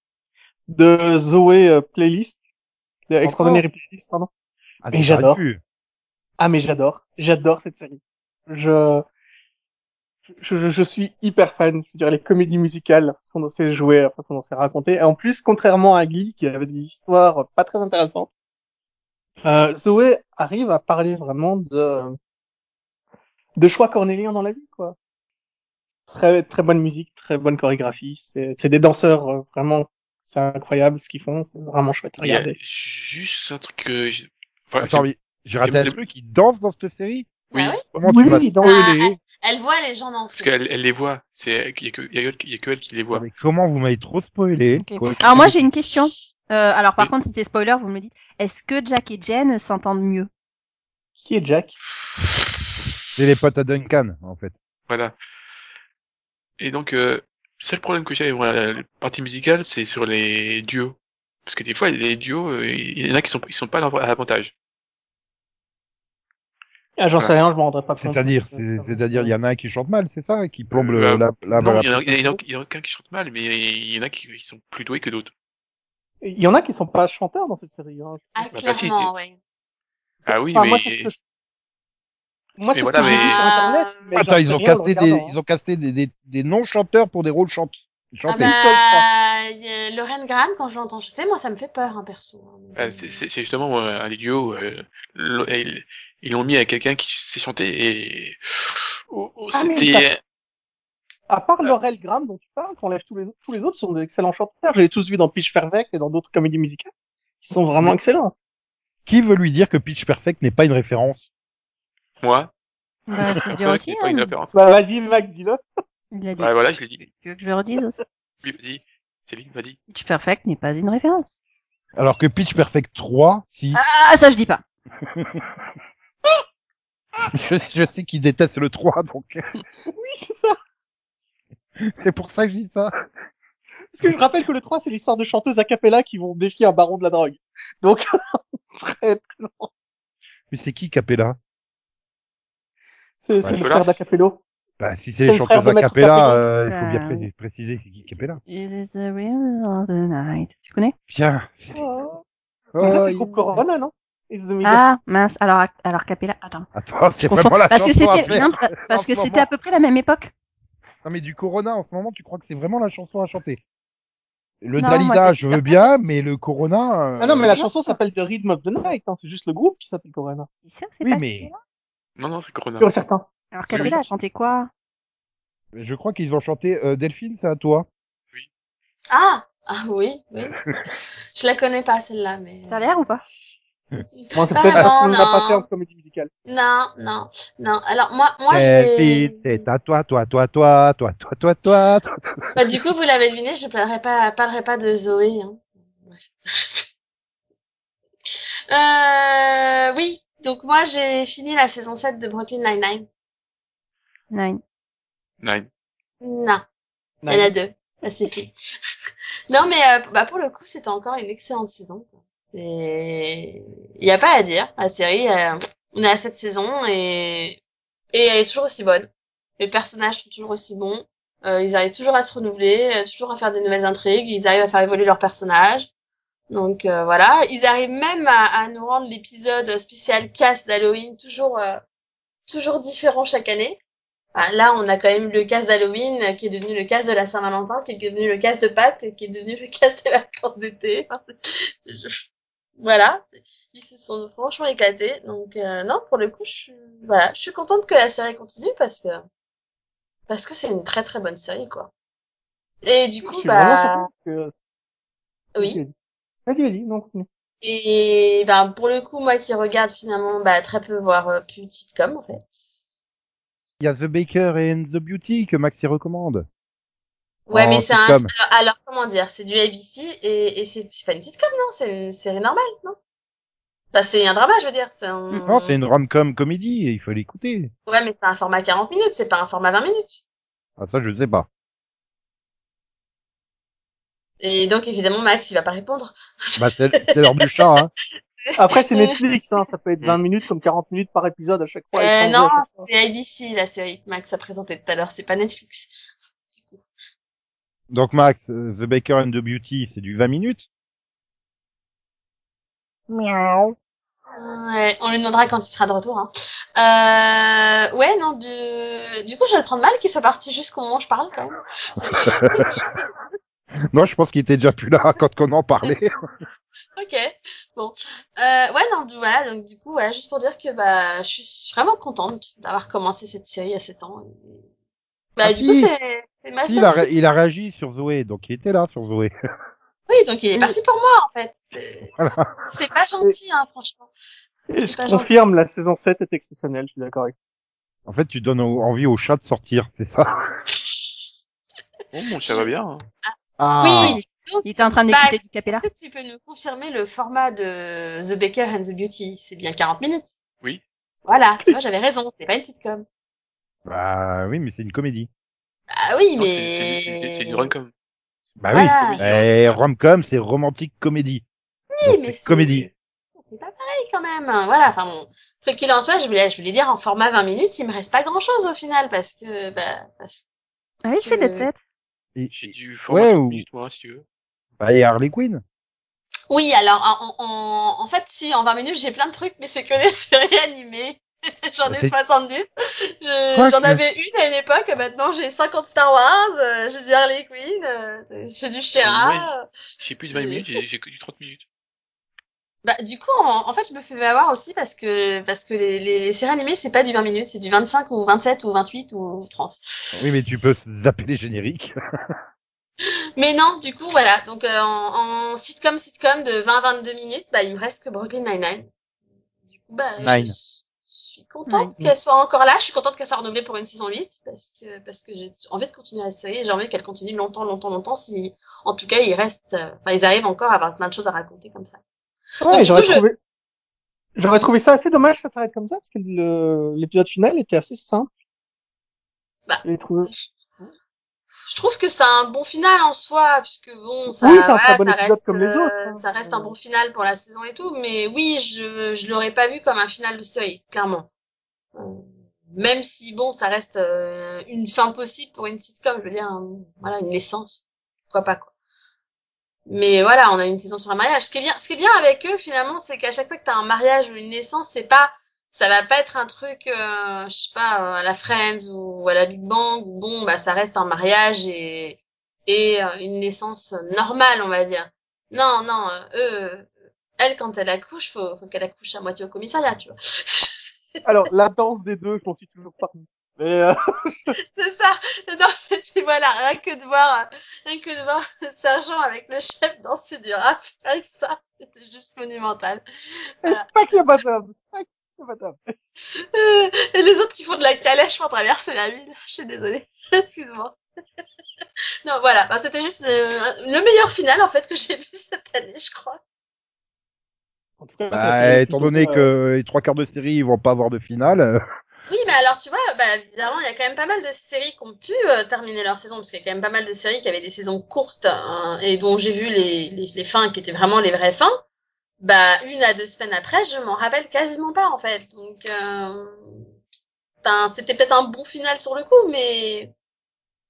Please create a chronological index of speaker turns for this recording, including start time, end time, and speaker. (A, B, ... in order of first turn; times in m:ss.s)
0:00.7-0:02.5 A
0:03.1-0:04.3 A
0:03.2-0:03.6 B
0:04.8-0:05.6 B
0:04.9-0:05.4 A
0:06.4-0:09.0 A
0:10.3-0:18.3 A
0:19.4-0:22.2 A
0:23.6-0:25.0 A
0:26.1-0:32.6 A
0:32.2-0:35.1 C
0:34.8-0:37.3 B
0:35.6-0:36.0 C
0:37.5-0:37.8 D
0:37.5-0:38.0 C
0:38.0-0:38.6 B
0:38.0-0:39.2 A
0:38.6-0:40.5 D
0:40.3-0:43.3 C
0:43.1-0:45.7 B
0:44.8-0:50.3 E
0:51.2-0:51.8 A
0:53.2-0:54.6 B
0:54.9-0:55.2 C
0:56.6-1:04.5 C
1:07.0-1:09.3 A
1:08.0-1:12.4 B
1:10.7-1:15.3 C
1:16.2-1:18.3 A
1:18.4-1:19.4 D
1:18.5-1:19.1 C
1:20.2-1:21.2 A
1:20.3-1:21.1 C
1:22.6-1:25.4 A
1:22.7-1:23.4 C
1:23.0-1:24.2 D
1:24.2-1:28.5 B
1:28.3-1:33.2 D
1:28.4-1:29.0 A
1:32.8-1:40.2 C
1:39.5-1:40.1 A
1:41.3-1:46.9 A
1:47.4-1:48.3 A
1:49.1-1:51.2 B
1:52.2-1:52.5 C
1:53.1-1:54.3 E
1:53.5-1:54.6 C
1:54.5-1:55.6 A
1:56.1-1:56.5 E
1:56.4-1:57.1 C
1:57.2-1:58.0 E
1:58.4-1:59.8 C
1:59.9-2:01.4 E
2:02.0-2:03.8 B
2:03.7-2:04.6 E
2:05.1-2:05.4 B
2:07.3-2:09.4 B
2:09.9-2:10.6 A
2:11.8-2:12.9 B
2:13.9-2:19.7 A
2:20.5-2:21.4 B
2:23.2-2:24.4 A
2:23.6-2:24.0 C
2:24.8-2:28.4 B
2:25.3-2:26.4 A
2:26.7-2:27.3 E
2:28.5-2:31.0 E
2:31.1-2:31.8 B
2:31.8-2:32.2 A
2:32.7-2:33.6 B
2:32.8-2:34.8 A
2:34.6-2:40.3 E
2:36.7-2:39.5 B
2:41.0-2:43.6 B
2:44.6-2:47.6 B
2:44.8-2:45.9 E
2:47.2-2:50.5 A
2:47.5-2:48.0 E
2:50.6-2:51.6 E
2:51.0-2:51.5 B
2:52.2-2:52.9 C
2:52.8-2:54.0 A
2:53.5-2:54.7 E
2:53.7-2:54.0 C
2:55.7-2:57.9 B
2:59.1-3:00.6 D
3:01.4-3:03.0 D
3:02.7-3:03.2 E
3:04.2-3:05.7 D
3:04.4-3:06.3 A
3:06.5-3:09.6 D
3:08.5-3:12.1 B
3:12.6-3:16.8 D
3:18.7-3:23.1 D
3:24.3-3:24.6 E
3:25.4-3:25.7 C
3:26.2-3:26.6 D
3:27.2-3:27.5 A
3:27.3-3:28.5 D
3:29.5-3:37.6 D
3:38.1-3:39.1 D
3:39.6-3:45.9 D
3:46.5-3:51.8 D
3:52.5-3:53.8 D
3:54.4-4:02.2 D
4:02.8-4:09.2 D
4:10.3-4:11.9 D
4:12.8-4:14.1 D
4:13.2-4:14.5 A
4:15.6-4:15.9 A
4:16.5-4:17.3 A
4:17.6-4:22.8 D
4:23.8-4:26.5 B
4:27.5-4:33.0 D
4:27.5-4:28.3 B
4:33.9-4:35.8 D
4:35.5-4:37.7 B
4:37.9-4:40.2 D
4:40.8-4:41.5 B
4:44.4-4:46.6 D
4:46.6-4:47.9 B
4:48.5-4:49.2 D
4:48.6-4:52.9 A
4:52.0-4:55.9 D
4:56.5-4:56.8 D
4:57.9-5:00.6 B
5:03.1-5:03.8 B
5:04.4-5:13.0 D
5:12.2-5:12.8 B
5:13.9-5:16.1 B
5:17.0-5:24.6 D
5:25.4-5:27.1 D
5:25.4-5:25.9 B
5:26.7-5:29.3 B
5:30.1-5:32.1 D
5:32.2-5:32.5 B
5:32.7-5:34.1 D
5:34.7-5:37.4 A
5:34.8-5:35.4 D
5:38.1-5:40.3 B
5:40.8-5:41.2 D
5:42.1-5:43.0 C
5:42.4-5:42.7 D
5:43.3-5:50.4 D
5:43.6-5:44.2 B
5:44.6-5:45.9 E
5:51.3-5:53.0 D
5:53.8-5:55.3 B
5:55.9-5:57.7 D
5:56.4-5:57.9 C
5:58.6-6:01.4 B
5:58.7-5:59.3 D
5:58.8-5:59.8 C
6:01.9-6:10.4 D
6:02.0-6:02.9 B
6:11.0-6:11.8 E
6:11.2-6:11.7 D
6:12.4-6:13.6 B
6:12.5-6:14.2 C
6:14.8-6:15.6 B
6:16.5-6:22.7 D
6:21.9-6:22.1 B
6:23.2-6:29.6 D
6:23.6-6:24.0 B
6:29.0-6:31.6 C
6:30.2-6:30.7 D
6:32.8-6:40.2 D
6:40.2-6:41.9 B
6:43.4-6:48.9 D
6:49.7-7:02.0 D
6:50.2-6:50.6 B
7:02.6-7:03.4 A
7:02.7-7:03.2 D
7:04.4-7:08.3 A
7:09.7-7:10.4 D
7:09.8-7:10.3 A
7:11.7-7:21.3 D
7:14.4-7:16.7 A
7:22.0-7:28.7 D
7:29.9-7:51.2 D
7:51.2-7:54.6 A
7:54.8-8:03.0 D
8:03.6-8:06.0 A
8:06.4-8:11.0 D
8:12.2-8:16.4 D
8:18.0-8:19.5 A
8:18.3-8:21.8 B
8:22.3-8:31.8 D
8:32.4-8:36.7 D
8:37.6-8:40.1 D